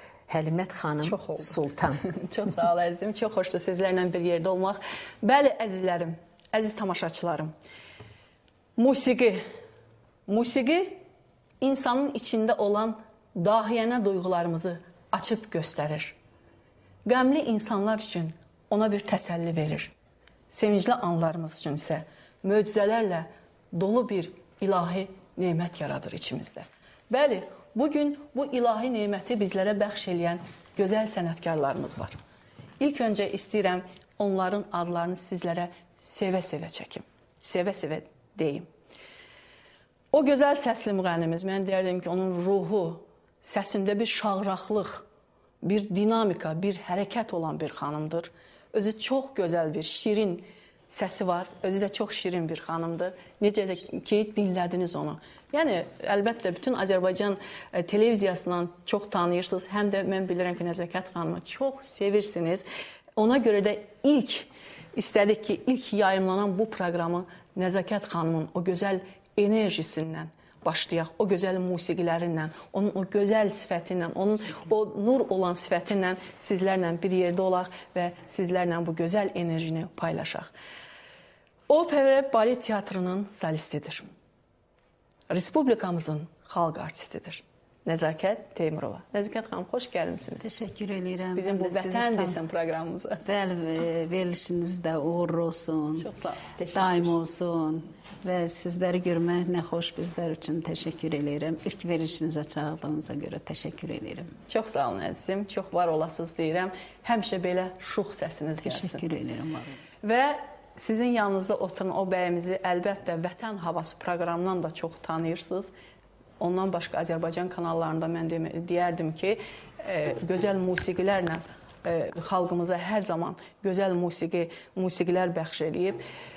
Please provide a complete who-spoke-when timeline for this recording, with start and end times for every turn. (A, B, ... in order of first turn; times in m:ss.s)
0:00.3-0:02.0 A
0:01.0-0:07.5 B
0:08.8-0:09.4 B
0:10.3-0:11.0 B
0:11.6-0:16.1 B
0:17.0-0:19.9 B
0:20.5-0:32.2 B
0:32.8-0:38.7 B
0:40.1-0:45.0 B
0:45.6-1:20.5 B
1:21.7-1:24.1 B
1:25.3-1:30.5 B
1:30.4-1:32.4 C
1:31.3-1:33.2 B
1:33.2-1:36.1 C
1:36.0-1:36.5 B
1:36.6-1:37.1 A
1:36.7-1:44.3 C
1:44.5-1:49.0 B
1:48.6-1:49.8 C
1:50.0-1:55.7 B
1:56.4-2:06.0 B